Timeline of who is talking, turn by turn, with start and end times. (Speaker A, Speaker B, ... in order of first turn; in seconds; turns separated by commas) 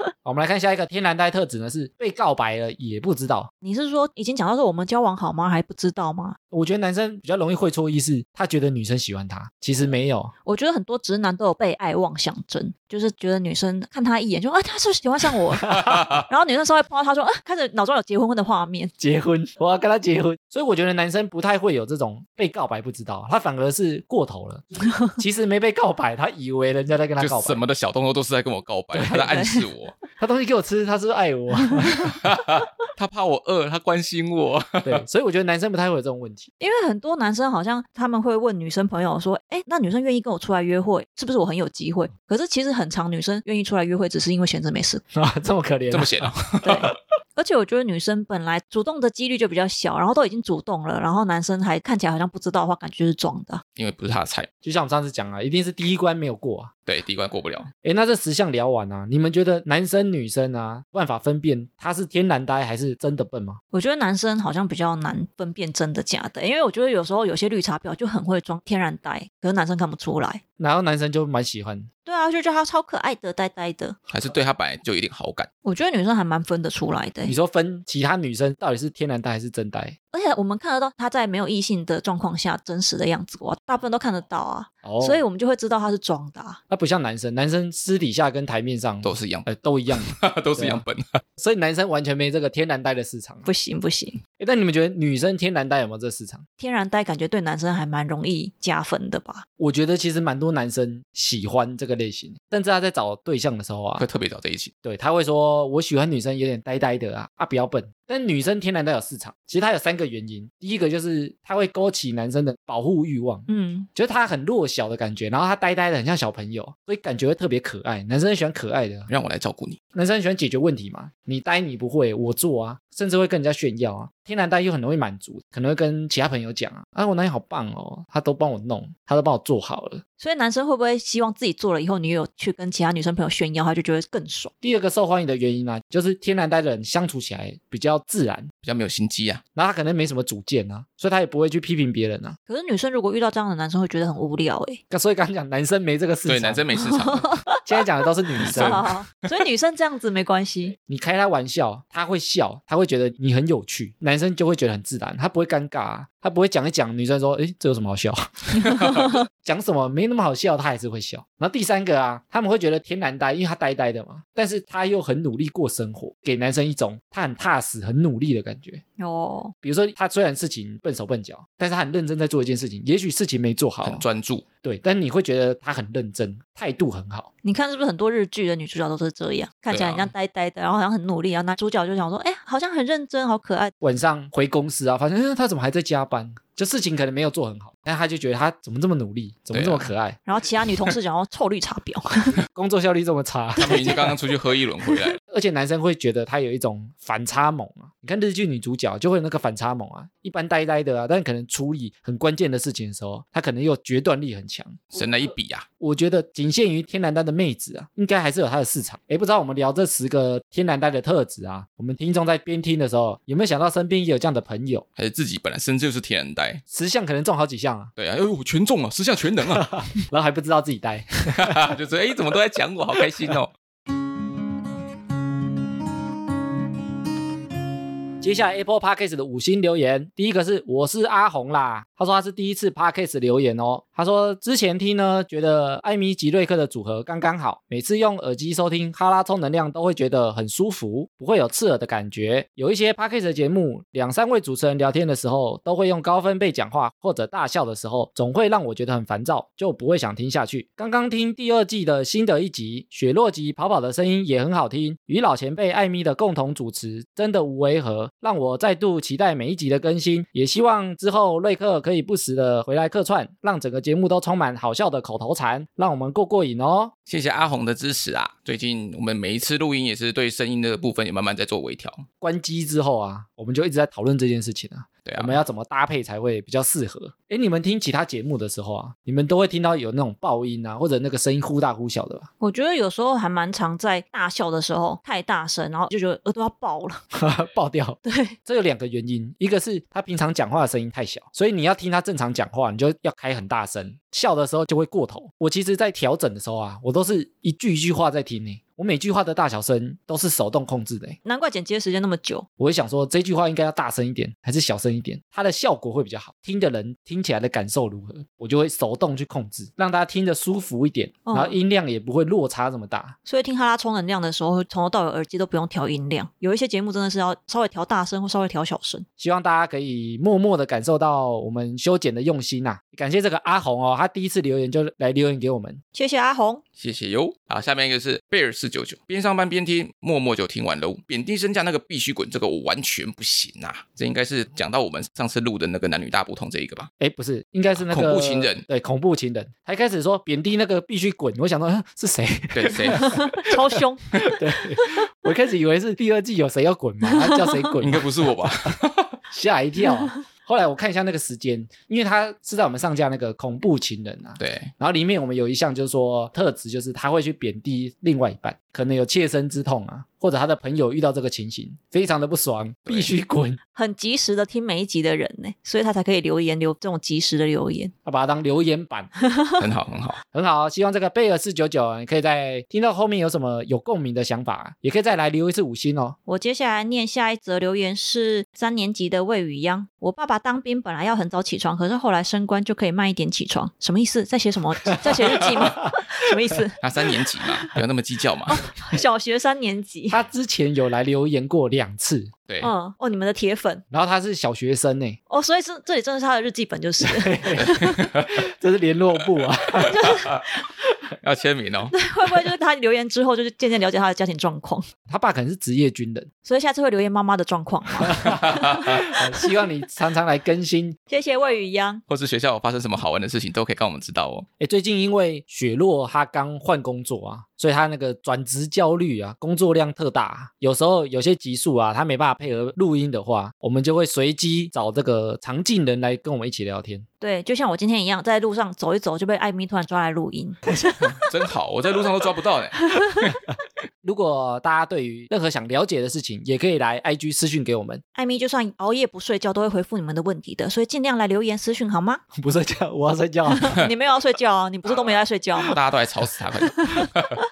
Speaker A: 0.2-3.5, Speaker B: 3.6-6.4, Speaker A: 6.5-10.3, Speaker B: 10.4-18.9, Speaker A: 15.6-16.2, Speaker A: 19.0-27.6, Speaker C: 27.2-29.9, Speaker A: 28.9-29.3, Speaker B: 29.1-29.6, Speaker A: 30.2-32.1, Speaker B: 31.6-31.9, Speaker C: 32.1-35.0, Speaker A: 34.8-36.5, Speaker B: 36.6-45.0, Speaker A: 45.1-46.8, Speaker C: 45.9-46.8, Speaker B: 46.6-53.6, Speaker C: 53.8-54.5, Speaker A: 54.6-56.7, Speaker C: 56.9-57.7, Speaker A: 57.8-63.6, Speaker B: 63.7-70.4, Speaker A: 70.6-71.9, Speaker B: 72.0-74.0, Speaker C: 74.1-75.5, Speaker B: 75.6-77.3, Speaker A: 77.2-80.0, Speaker B: 80.1-86.6, Speaker A: 84.8-85.2, Speaker A: 86.7-90.8, Speaker C: 89.0-91.2, Speaker A: 91.4-93.5, Speaker B: 93.4-94.2, Speaker A: 94.4-96.4, Speaker B: 96.6-99.4, Speaker A: 99.6-104.0, Speaker C: 104.0-104.7, Speaker A: 104.8-119.1, Speaker B: 113.5-113.9, Speaker C: 119.1-119.8, Speaker A: 119.9-130.0, Speaker B: 130.2-134.5, Speaker A: 134.6-138.5, Speaker C: 138.6-139.4, Speaker A: 139.5-142.3, Speaker B: 142.5-144.8, Speaker A: 144.9-146.7, Speaker C: 146.2-147.4, Speaker B: 146.8-147.6, Speaker A: 147.6-148.8, Speaker B: 148.4-150.8, Speaker C: 148.4-148.9, Speaker A: 150.8-168.8, Speaker B: 158.7-159.2, Speaker B: 169.0-169.5, Speaker A: 169.6-174.0, Speaker C: 173.8-174.4, Speaker A: 174.6-177.3, Speaker B: 177.4-183.7, Speaker C: 179.7-180.1, Speaker A: 183.8-190.2, Speaker C: 189.5-189.9, Speaker B: 190.2-192.4, Speaker A: 192.5-194.0, Speaker C: 193.6-195.2, Speaker B: 193.7-193.9, Speaker A: 195.3-204.9, Speaker C: 204.9-205.7, Speaker A: 205.8-214.8, Speaker C: 215.0-216.6, Speaker A: 216.7-217.9, Speaker C: 218.0-219.8, Speaker A: 219.6-221.7, Speaker C: 221.3-223.5, Speaker A: 228.2-266.9, Speaker C: 267.1-272.1, Speaker A: 272.2-282.3, Speaker C: 275.0-275.4, Speaker B: 282.4-287.0, Speaker A: 287.1-301.2, Speaker B: 288.0-288.3, Speaker B: 301.2-302.4, Speaker A: 302.6-313.1, Speaker B: 311.2-311.6, Speaker B: 313.2-319.0, Speaker A: 319.2-325.8, Speaker B: 325.9-326.6, Speaker C: 326.8-336.9, Speaker A: 337.0-343.5, Speaker C: 337.8-338.6, Speaker C: 342.5-343.1, Speaker B: 342.9-344.0, Speaker A: 344.2-348.7, Speaker C: 347.8-349.1, Speaker A: 349.3-363.6, Speaker C: 354.4-354.7, Speaker B: 363.7-367.9, Speaker A: 368.0-369.1, Speaker B: 369.2-369.6, Speaker C: 369.6-370.2, Speaker A: 370.3-376.2, Speaker B: 376.3-386.8, Speaker A: 385.1-385.4, Speaker C: 386.8-388.6, Speaker B: 388.5-390.2, Speaker A: 390.1-392.3, Speaker B: 392.6-393.8, Speaker A: 393.9-395.2, Speaker B: 395.3-398.0, Speaker A: 397.0-400.1, Speaker C: 397.6-398.4, Speaker B: 399.9-400.4, Speaker C: 401.2-401.9, Speaker B: 401.9-404.9, Speaker A: 405.1-406.3, Speaker B: 406.4-409.1, Speaker A: 408.1-411.0, Speaker B: 411.1-412.0, Speaker C: 412.1-414.5, Speaker A: 414.6-427.1, Speaker B: 427.2-430.8, Speaker C: 431.0-432.9, Speaker A: 434.0-438.0, Speaker B: 438.1-442.2, Speaker A: 442.3-443.8, Speaker B: 443.5-445.8, Speaker C: 445.6-447.3, Speaker B: 446.6-447.1